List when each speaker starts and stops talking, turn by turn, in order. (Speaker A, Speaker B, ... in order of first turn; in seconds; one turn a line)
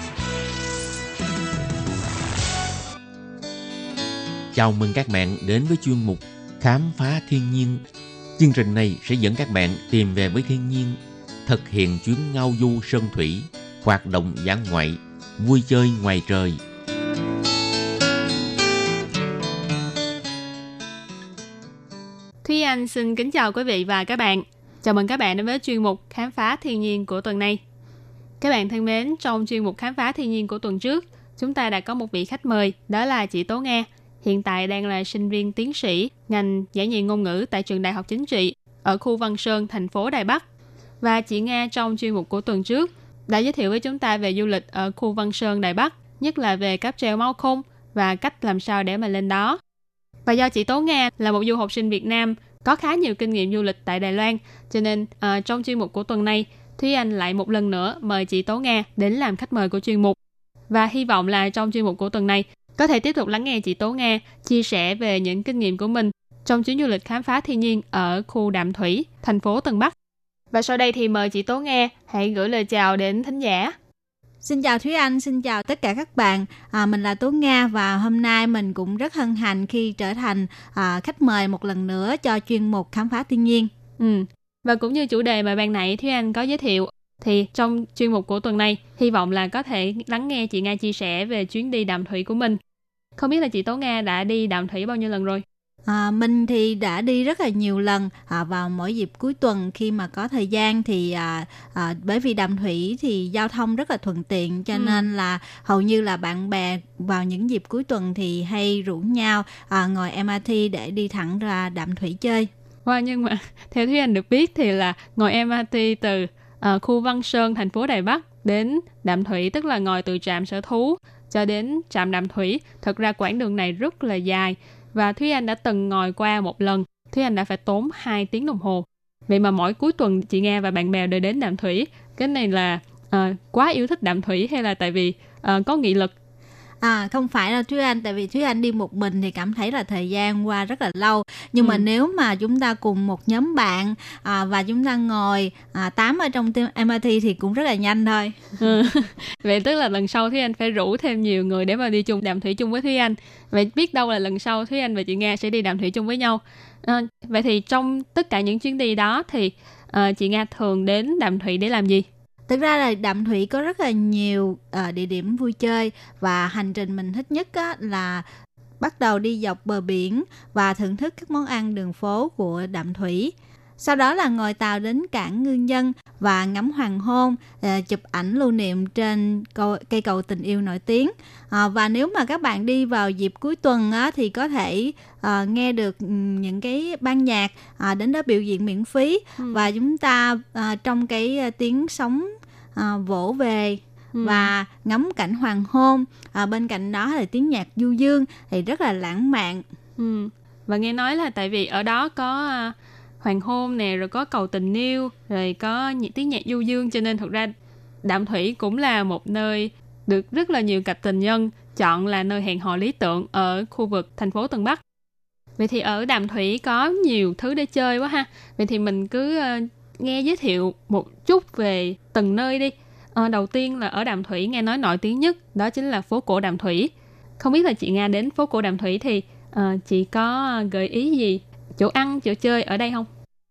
Speaker A: 4.5-7.8
Speaker A: 8.4-16.6
Speaker B: 22.4-27.6
Speaker B: 28.4-40.4
Speaker B: 41.0-49.6
Speaker B: 50.3-60.2
Speaker B: 60.7-69.9
Speaker B: 70.5-73.8
Speaker C: 74.4-83.7
Speaker B: 84.0-92.6
Speaker B: 93.2-95.4
Speaker C: 95.9-112.5
Speaker B: 104.7-105.0
Speaker B: 112.9-136.1
Speaker C: 136.8-148.8
Speaker B: 141.6-141.8
Speaker B: 148.6-162.1
Speaker C: 162.5-168.2
Speaker C: 168.8-199.6
Speaker B: 194.2-194.5
Speaker B: 200.0-207.5
Speaker B: 208.0-214.8
Speaker B: 215.6-233.1